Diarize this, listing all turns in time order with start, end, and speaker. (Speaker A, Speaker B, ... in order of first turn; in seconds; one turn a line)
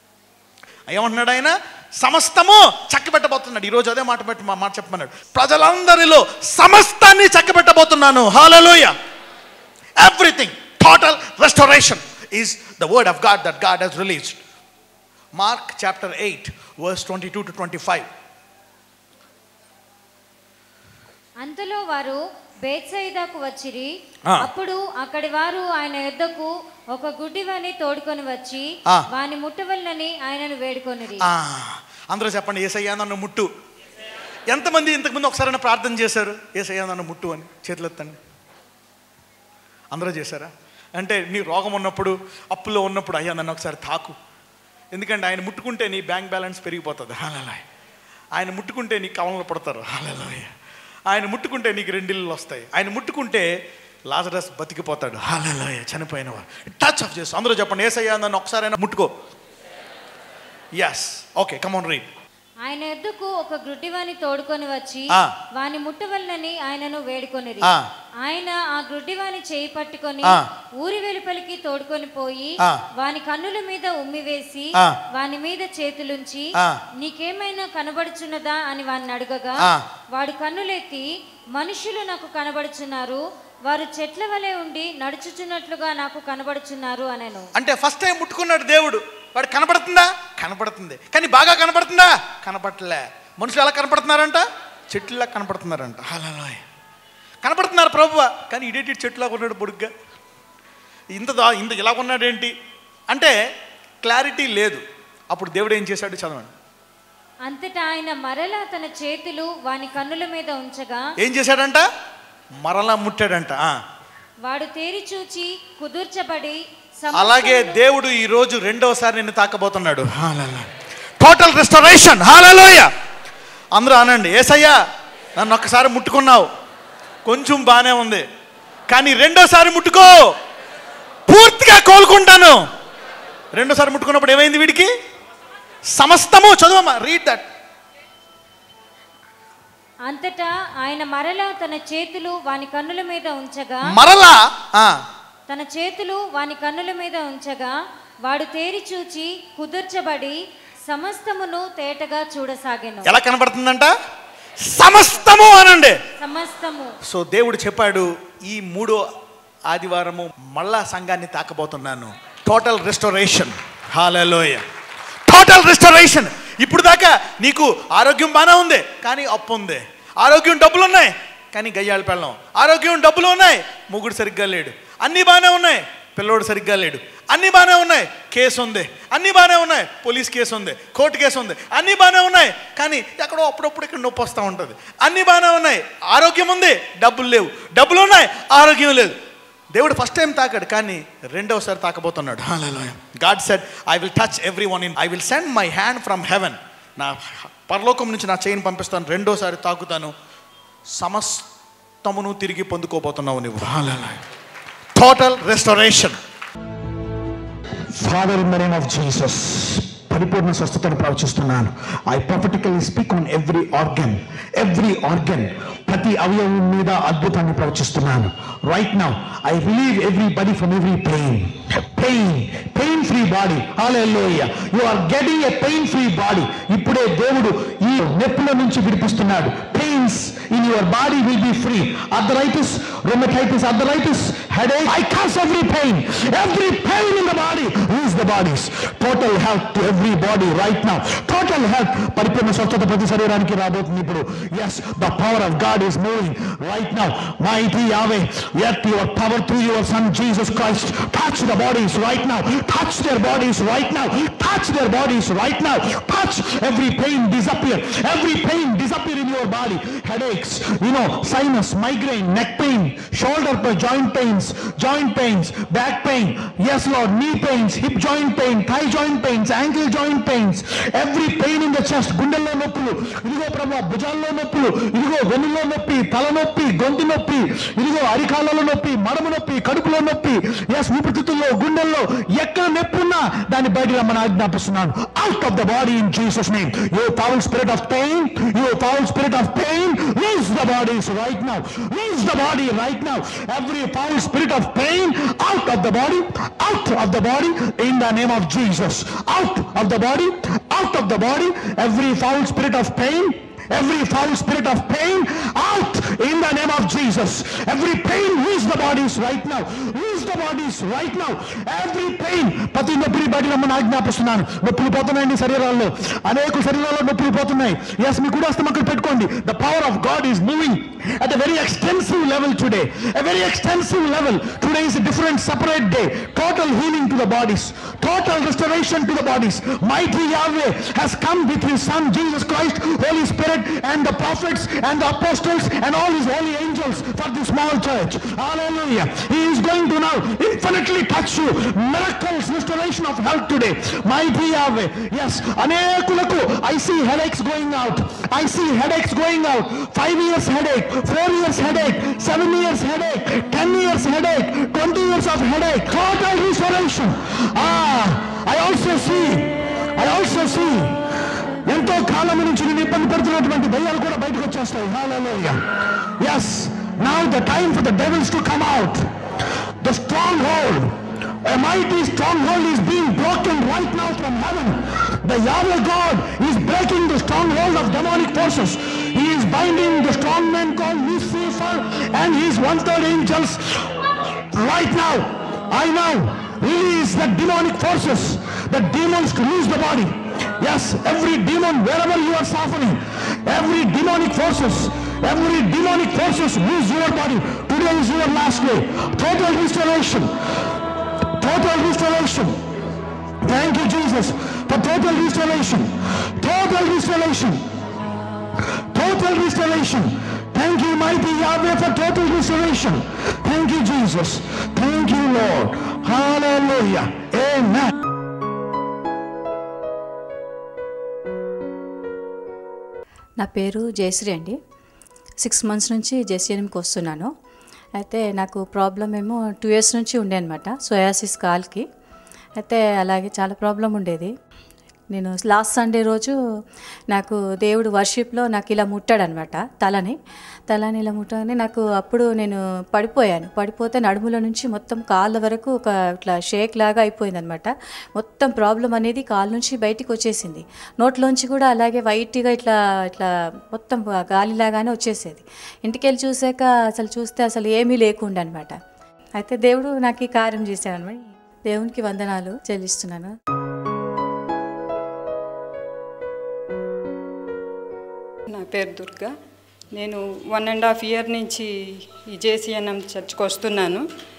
Speaker A: 0.9-8.9
Speaker A: 10.0-14.4
Speaker A: 15.4-18.1
Speaker B: 21.4-23.9
Speaker B: 24.4-31.2
Speaker A: 31.3-33.5
Speaker A: 34.5-38.2
Speaker A: 39.9-44.2
Speaker A: 44.9-47.6
Speaker A: 48.4-50.5
Speaker A: 51.1-53.5
Speaker A: 54.1-59.1
Speaker A: 60.8-62.0
Speaker B: 62.6-67.7
Speaker B: 68.2-76.5
Speaker B: 77.0-79.6
Speaker B: 80.1-81.0
Speaker B: 81.6-87.5
Speaker A: 87.6-96.6
Speaker A: 97.4-99.9
Speaker A: 101.2-102.5
Speaker A: 104.0-106.5
Speaker B: 107.5-111.0
Speaker A: 111.2-111.8
Speaker A: 112.7-113.7
Speaker B: 114.4-117.8
Speaker A: 117.1-120.7
Speaker A: 121.2-122.9
Speaker A: 123.8-124.8
Speaker A: 125.4-126.5
Speaker A: 127.3-128.2
Speaker A: 128.9-130.1
Speaker A: 131.3-132.6
Speaker A: 133.6-134.9
Speaker A: 135.9-137.4
Speaker B: 140.1-143.9
Speaker A: 143.9-145.0
Speaker B: 145.5-147.7
Speaker B: 148.2-153.1
Speaker A: 153.1-153.9
Speaker A: 154.7-156.0
Speaker B: 156.2-156.9
Speaker A: 157.1-159.0
Speaker A: 159.7-164.6
Speaker A: 165.3-189.2
Speaker A: 189.7-200.1
Speaker A: 201.0-201.4
Speaker A: 202.0-204.2
Speaker A: 204.9-206.2
Speaker C: 207.9-360.9
Speaker C: 361.6-365.6
Speaker C: 366.2-369.1
Speaker C: 369.8-383.9
Speaker C: 384.5-400.3
Speaker C: 401.4-402.6
Speaker C: 403.4-407.6
Speaker C: 408.9-417.9
Speaker D: 423.4-424.6
Speaker D: 425.4-427.3
Speaker D: 428.0-431.8
Speaker D: 432.6-434.3
Speaker D: 435.1-436.4
Speaker D: 437.1-440.2
Speaker D: 440.7-458.8
Speaker D: 459.4-463.3
Speaker E: 468.5-469.4
Speaker E: 469.9-474.1